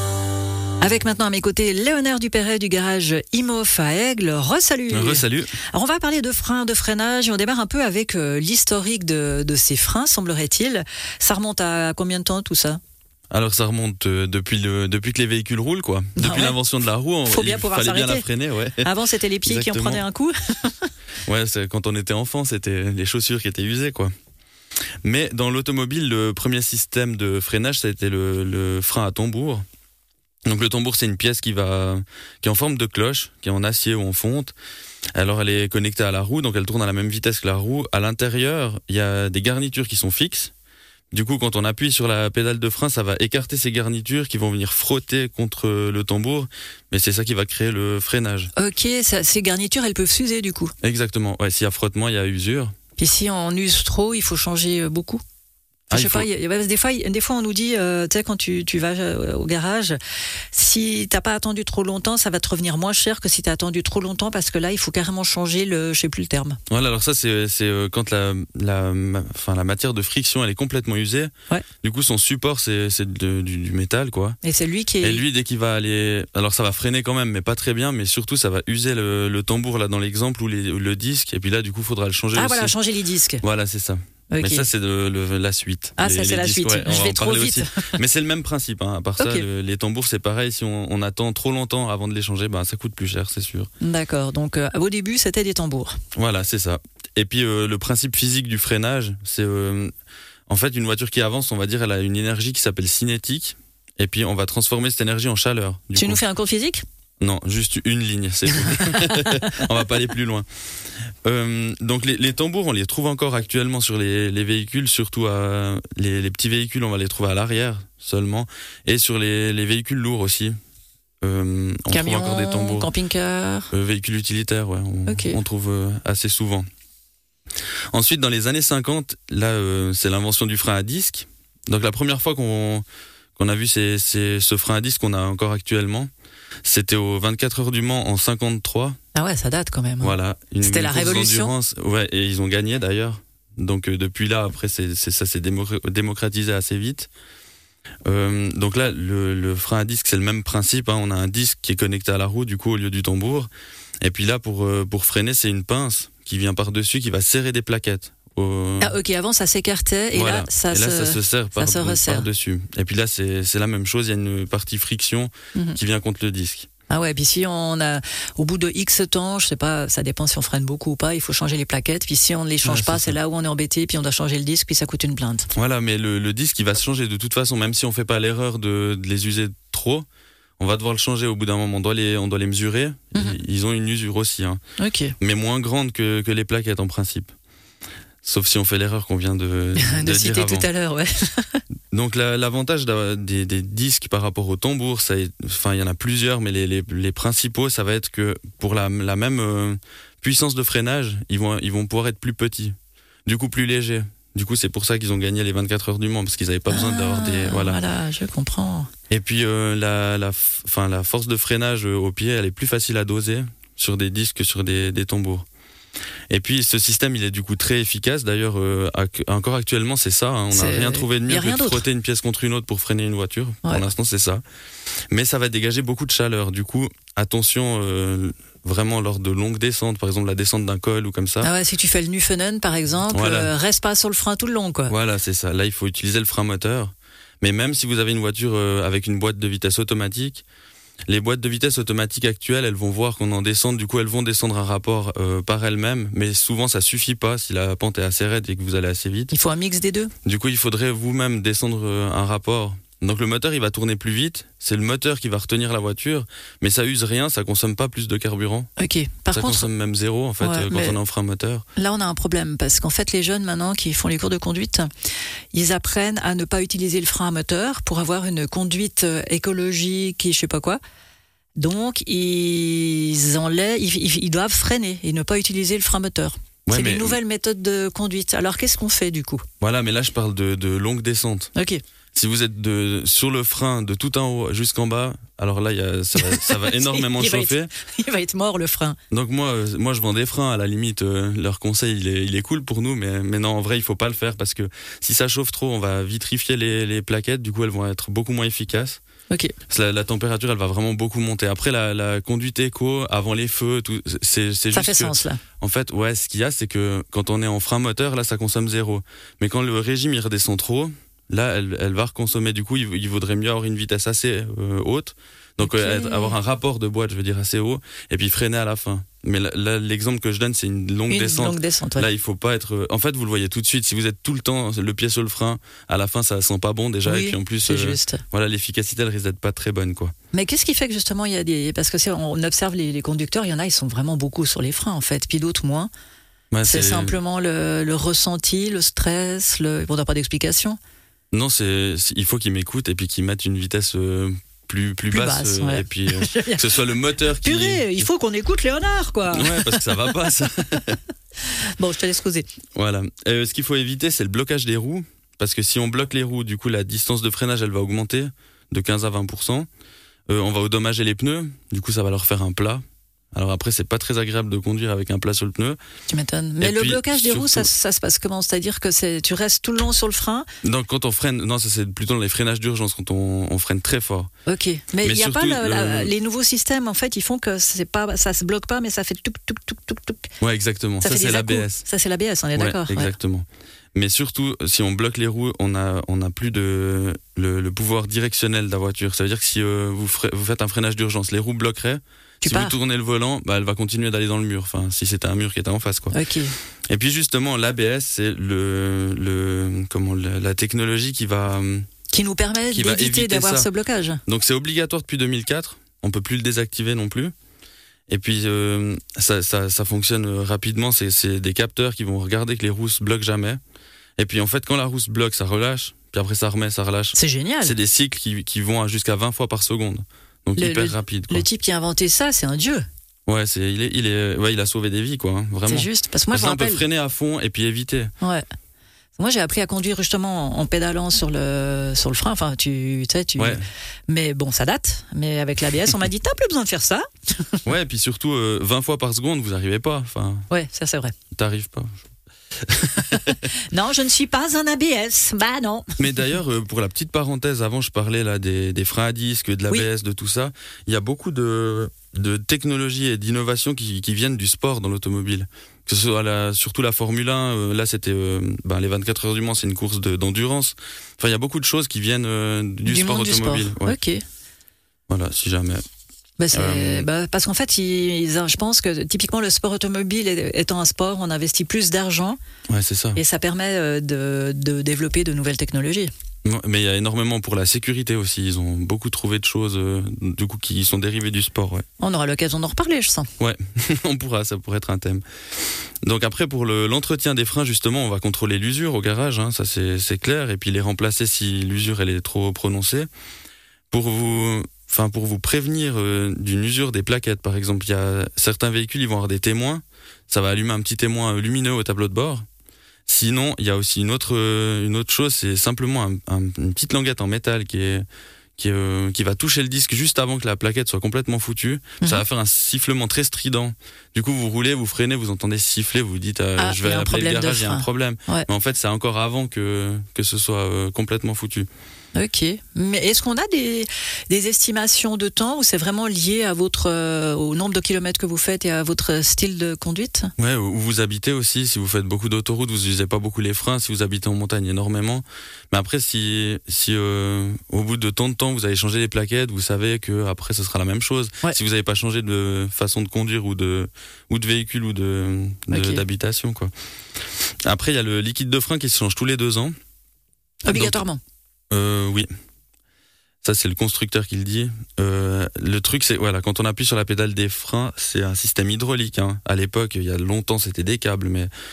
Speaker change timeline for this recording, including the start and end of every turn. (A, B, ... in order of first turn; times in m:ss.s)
0:00.8-0:12.8 A
0:04.9-0:05.5 B
0:13.3-0:18.9 B
0:16.2-0:16.6 A
0:17.3-0:18.3 A
0:18.8-0:20.9 A
0:19.4-0:20.0 B
0:21.2-0:24.1 B
0:25.0-0:29.6 B
0:30.5-0:34.5 B
0:35.2-0:40.5 B
0:41.1-0:48.5 B
0:48.6-0:50.7 A
0:50.8-0:52.7 B
0:53.0-0:55.2 A
0:55.9-0:56.3 B
0:55.9-1:00.0 A
1:00.5-1:06.6 A
1:06.7-1:11.3 B
1:11.8-1:14.4 B
1:14.4-1:15.2 A
1:15.0-1:22.8 B
1:22.3-1:23.4 A
1:23.4-1:33.7 B
1:24.3-1:24.7 A
1:26.0-1:27.9 A
1:29.2-1:29.5 A
1:33.8-1:35.9 A
1:36.2-1:39.9 B
1:40.5-1:46.2 B
1:46.0-1:46.8 A
1:47.2-1:50.5 B
1:48.8-1:49.6 A
1:51.2-2:00.6 B
2:01.2-2:02.9 B
2:01.9-2:03.7 A
2:03.7-2:06.7 B
2:05.1-2:05.4 A
2:07.9-2:12.8 B
2:13.4-2:16.1 B
2:16.6-2:19.0 B
2:19.1-2:21.5 A
2:20.0-2:27.1 B
2:28.1-2:33.5 B
2:34.0-2:39.0 B
2:38.8-2:42.3 A
2:40.1-2:46.7 B
2:46.9-2:55.5 A
2:52.6-2:53.2 B
2:55.6-3:00.1 B
3:00.6-3:04.6 B
3:04.8-3:05.2 A
3:05.2-3:07.3 B
3:08.2-3:10.7 B
3:09.8-3:11.6 A
3:11.9-3:27.8 B
3:26.7-3:28.9 A
3:29.1-3:35.5 B
3:36.3-3:44.4 B
3:40.5-3:41.8 A
3:45.1-3:51.5 B
3:51.4-3:55.0 A
3:53.1-3:53.5 B
3:54.9-4:00.4 B
4:01.1-4:09.3 B
4:09.3-4:10.1 A
4:10.2-4:18.7 B
4:18.8-4:19.7 A
4:19.3-4:21.6 B
4:20.4-4:21.0 A
4:21.8-4:24.9 A
4:25.5-4:30.8 A
4:31.6-4:39.4 A
4:36.7-4:37.2 B
4:39.6-4:41.5 B
4:41.6-4:41.8 A
4:42.2-4:47.7 B
4:46.2-4:49.0 A
4:49.1-4:59.0 B
4:59.3-4:59.5 A
4:59.7-5:30.1 B
5:04.7-5:05.4 A
5:15.6-5:16.4 A
5:21.1-5:22.1 A
5:27.0-5:28.2 A
5:30.3-5:35.9 A
5:36.5-5:37.2 B
5:36.6-5:40.8 A
5:41.3-5:48.1 B
5:45.1-5:46.8 A
5:47.4-5:50.0 A
5:49.3-5:51.0 B
5:51.8-5:52.5 A
5:52.8-5:59.7 B
6:00.3-6:02.8 B
6:03.3-6:05.8 B
6:06.1-6:10.5 A
6:06.6-6:07.7 B
6:10.6-6:14.3 B
6:14.5-6:20.3 A
6:15.0-6:16.1 B
6:20.4-6:21.8 B
6:21.0-6:23.1 A
6:22.6-6:36.2 B
6:32.4-6:32.8 A
6:36.1-6:36.5 A
6:36.9-6:41.9 B
6:42.1-6:44.2 A
6:42.7-6:43.7 B
6:44.3-6:47.3 B
6:48.1-6:53.6 B
6:54.2-7:01.5 B
6:57.2-6:57.8 A
7:00.6-7:02.8 A
7:03.3-7:08.1 B
7:05.7-7:06.8 A
7:09.2-7:17.6 A
7:13.4-7:13.7 B
7:17.6-7:20.5 B
7:20.5-7:21.1 A
7:21.3-7:22.1 B
7:22.6-7:23.4 B
7:23.6-7:25.9 A
7:26.0-7:44.0 B
7:42.9-7:44.2 A
7:45.1-7:45.8 B
7:46.4-7:52.4 A
7:46.5-7:47.1 B
7:52.7-7:53.2 B
7:53.2-7:56.1 A
7:56.4-8:01.8 B
8:02.0-8:03.3 A
8:03.4-8:05.2 B
8:06.0-8:13.1 B
8:13.9-8:22.4 B
8:23.1-8:28.0 B
8:28.6-8:41.7 B
8:36.6-8:38.5 A
8:42.2-8:50.3 A
8:50.4-9:06.7 B
9:05.7-9:06.0 A
9:07.7-9:09.8 B
9:10.7-9:11.0 B
9:10.7-9:11.2 A
9:11.7-9:12.3 B
9:13.4-9:21.5 B